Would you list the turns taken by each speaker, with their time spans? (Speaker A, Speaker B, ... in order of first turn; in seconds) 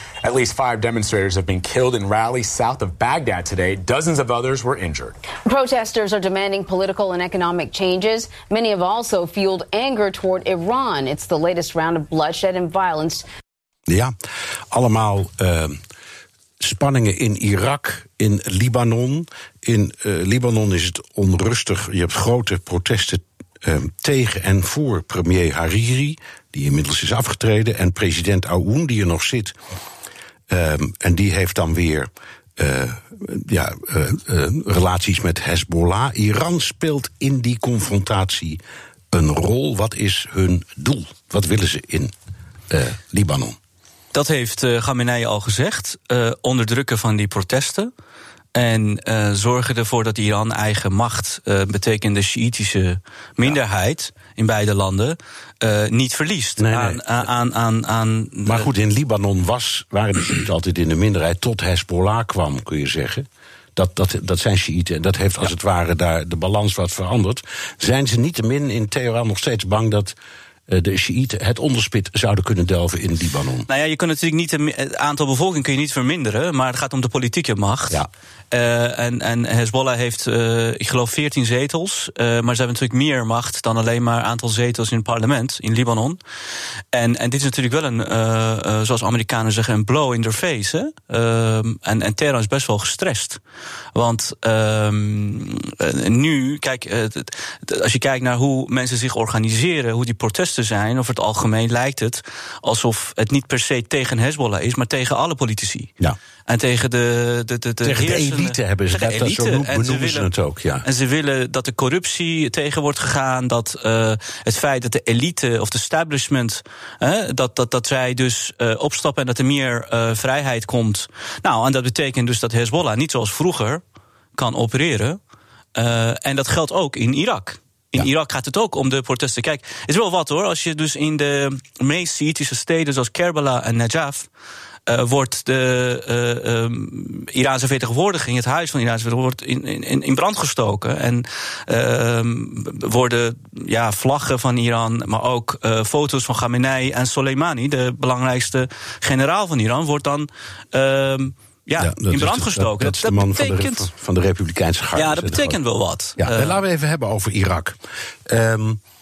Speaker A: 0.2-5.2
Speaker B: 5.4-13.2
Speaker C: 13.9-14.1, 14.7-15.8, 16.6-29.6, 30.5-38.6, 39.1-42.1, 42.7-43.6, 56.6-57.0, 58.5-70.2, 70.7-73.7, 107.8-110.8, 151.8-155.6, 156.2-158.8
Speaker D: 44.1-47.9, 48.5-58.7, 73.7-86.2, 86.9-93.4, 93.9-105.9, 106.5-110.3, 110.8-123.8, 124.4-125.2, 125.8-134.3, 134.9-153.9, 154.9-156.6